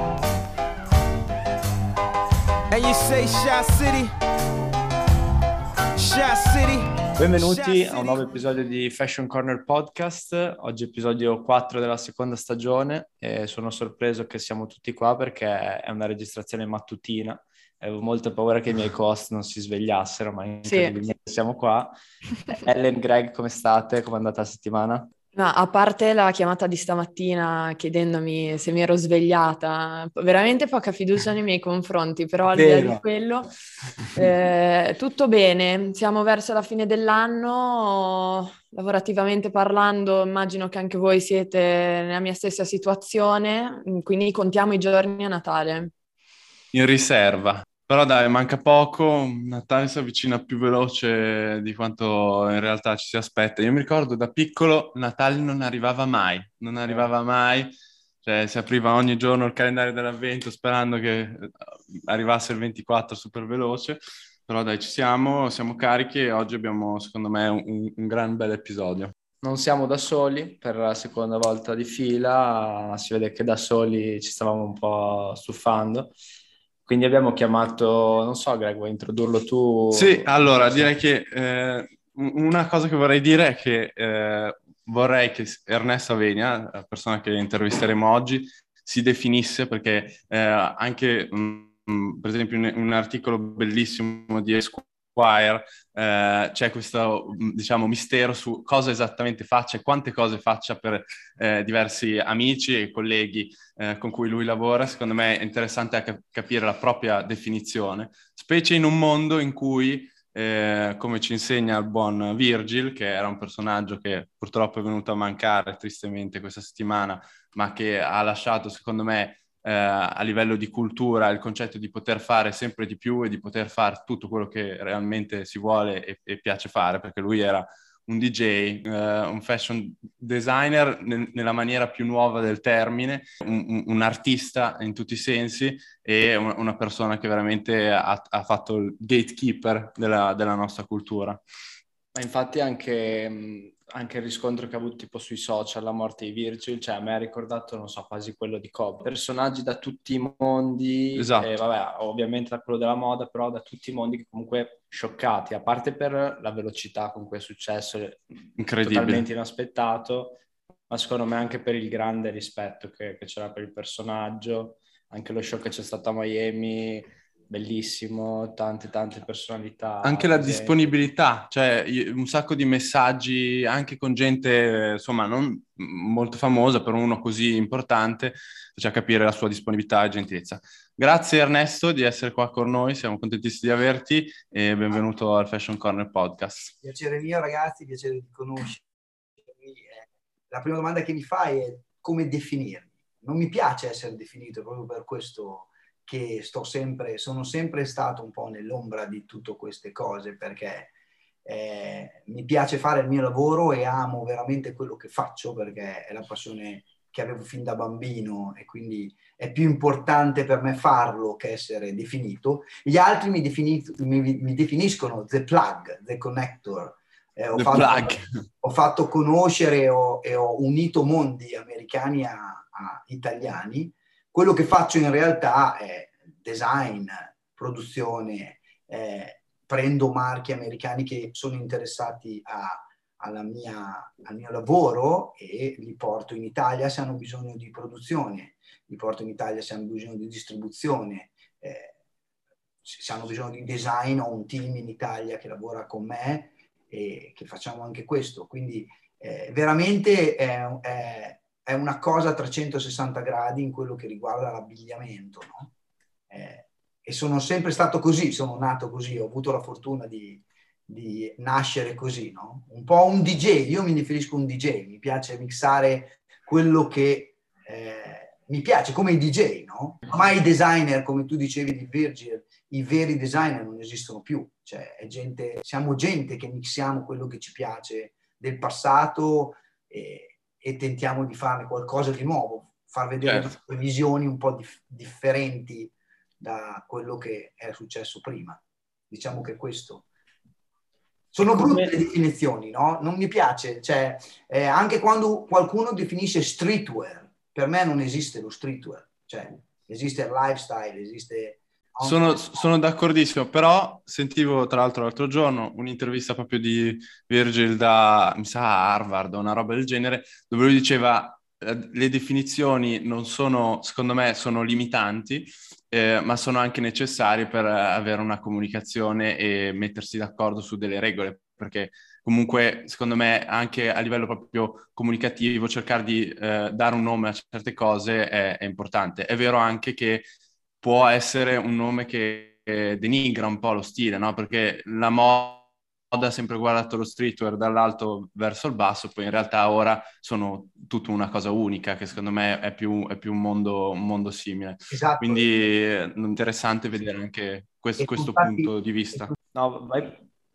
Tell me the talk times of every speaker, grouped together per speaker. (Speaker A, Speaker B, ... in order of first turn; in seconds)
Speaker A: 2.7-4.2, 6.0-8.3
Speaker B: 7.2-21.9, 22.6-25.1, 69.4-76.2, 76.9-80.9, 142.2-158.3, 158.8-170.8, 349.5-350.3
Speaker C: 20.6-21.0, 25.4-33.5, 34.1-45.9
Speaker D: 32.5-33.0, 46.7-57.7, 58.2-69.1, 79.9-141.4, 151.2-151.5, 158.6-159.3, 170.0-186.7, 217.6-218.4, 283.2-283.5, 291.6-291.9, 302.0-330.3, 330.8-349.3
Speaker E: 186.8-200.9, 201.4-241.9, 242.8-255.7, 256.3-290.1, 291.3-302.4, 344.9-345.5, 348.0-349.3